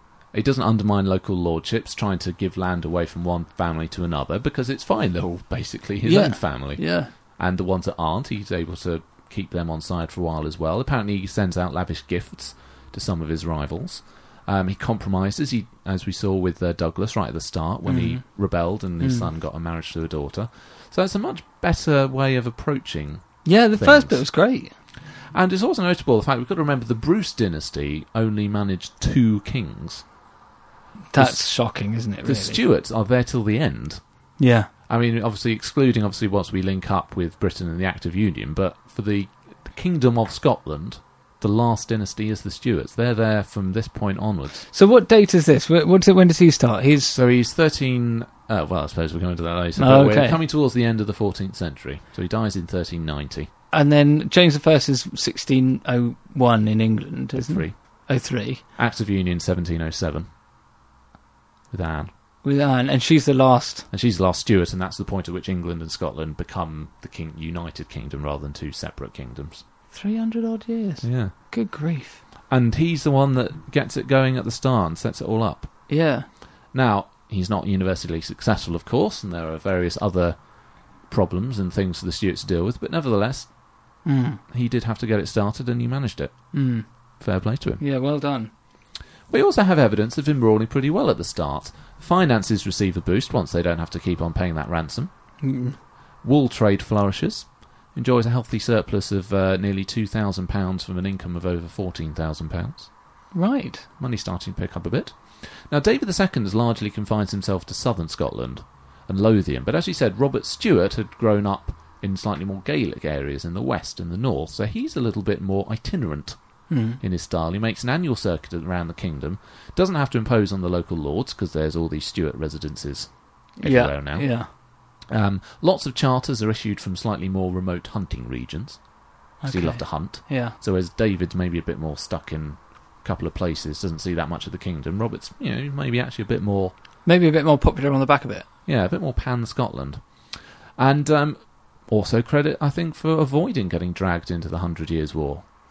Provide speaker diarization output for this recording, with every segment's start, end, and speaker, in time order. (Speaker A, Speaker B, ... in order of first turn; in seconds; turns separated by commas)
Speaker A: 0.3-24.2, Speaker B: 6.0-7.1, Speaker B: 17.9-18.2, Speaker B: 19.0-19.3, Speaker B: 23.4-24.7, Speaker A: 25.3-30.1, Speaker B: 31.1-32.6, Speaker A: 31.2-31.4, Speaker A: 32.2-34.0, Speaker B: 34.4-34.7, Speaker A: 34.9-44.7, Speaker B: 44.7-47.2, Speaker A: 47.1-53.5, Speaker B: 49.8-50.4, Speaker B: 53.7-58.6, Speaker A: 57.4-57.8, Speaker A: 58.8-60.3, Speaker A: 61.7-62.1, Speaker B: 62.4-63.9, Speaker A: 63.9-69.6, Speaker B: 69.9-72.2, Speaker A: 71.0-71.3, Speaker A: 72.5-75.9, Speaker B: 75.9-76.3, Speaker A: 76.7-80.4, Speaker A: 81.0-83.5, Speaker B: 84.0-84.4, Speaker A: 84.5-86.4, Speaker B: 86.5-86.9, Speaker A: 87.2-87.8, Speaker B: 87.8-88.5, Speaker A: 89.3-95.1, Speaker B: 95.4-95.8, Speaker A: 96.2-102.9, Speaker B: 103.3-103.9, Speaker A: 104.0-116.4, Speaker B: 116.7-117.0, Speaker A: 117.0-124.5, Speaker B: 123.6-124.5, Speaker A: 125.1-128.8, Speaker B: 129.4-130.6, Speaker A: 129.5-136.7, Speaker B: 137.1-138.5, Speaker A: 138.7-140.0, Speaker A: 140.8-145.4